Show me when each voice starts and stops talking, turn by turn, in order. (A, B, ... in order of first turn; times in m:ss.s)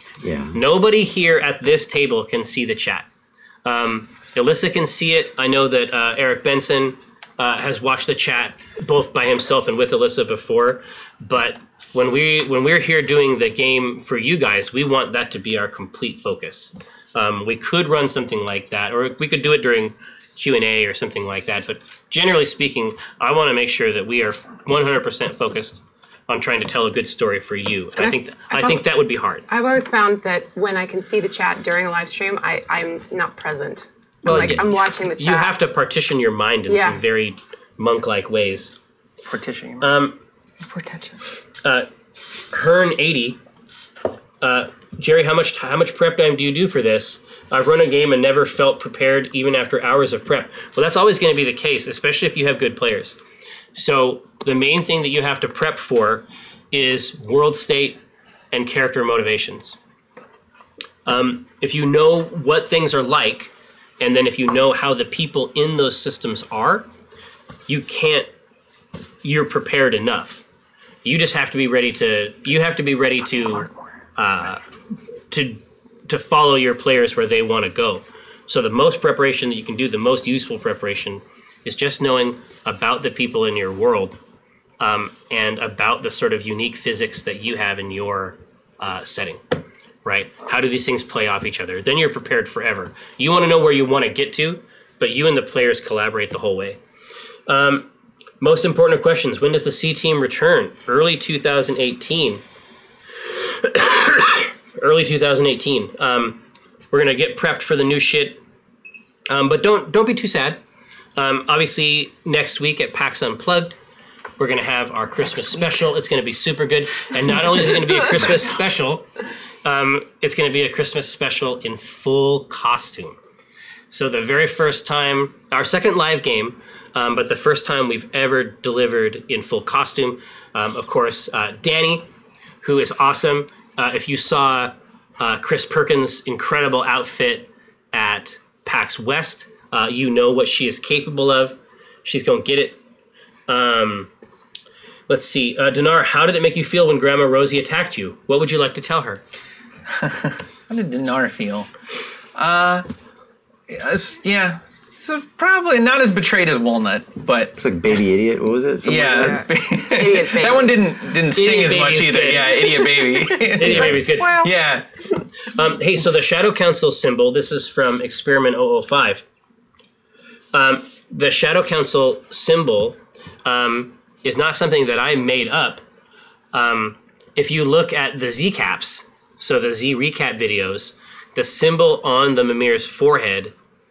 0:00.2-0:00.6 A
0:00.5-0:03.1 B
0:03.6-0:29.4 B
0:28.0-0:28.8 C
0:29.5-0:35.6 C
0:34.2-0:38.7 B
0:36.7-0:37.0 C
0:39.2-0:39.9 D
0:39.8-0:40.2 B
0:40.6-0:41.2 E
0:42.5-0:43.4 B
0:44.4-0:53.2 B
0:53.7-0:58.0 B
0:58.5-0:59.8 B
1:01.0-1:06.9 B
1:07.7-1:08.3 B
1:09.2-1:10.4 B
1:11.0-1:14.6 B
1:15.3-1:24.2 B
1:24.8-1:29.4 B
1:30.0-1:36.8 B
1:37.5-1:37.8 B
1:38.4-1:42.4 B
1:43.3-1:46.4 B
1:46.9-1:48.4 B
1:49.3-1:50.6 B
1:51.2-1:53.8 B
1:54.4-1:59.0 B
1:59.6-2:03.2 B
2:03.9-2:12.0 B
2:12.6-2:22.8 B
2:23.5-2:24.1 B
2:25.1-2:29.2 B
2:30.0-2:31.7 D
2:32.4-2:32.8 D
2:33.7-2:37.6 D
2:37.6-2:39.4 A
2:38.8-2:44.8 D
2:38.9-2:39.5 E
2:39.8-2:40.8 C
2:41.3-2:44.4 B
2:43.7-2:44.6 E
2:45.5-2:49.2 B
2:50.5-2:55.8 B
2:56.5-3:03.5 B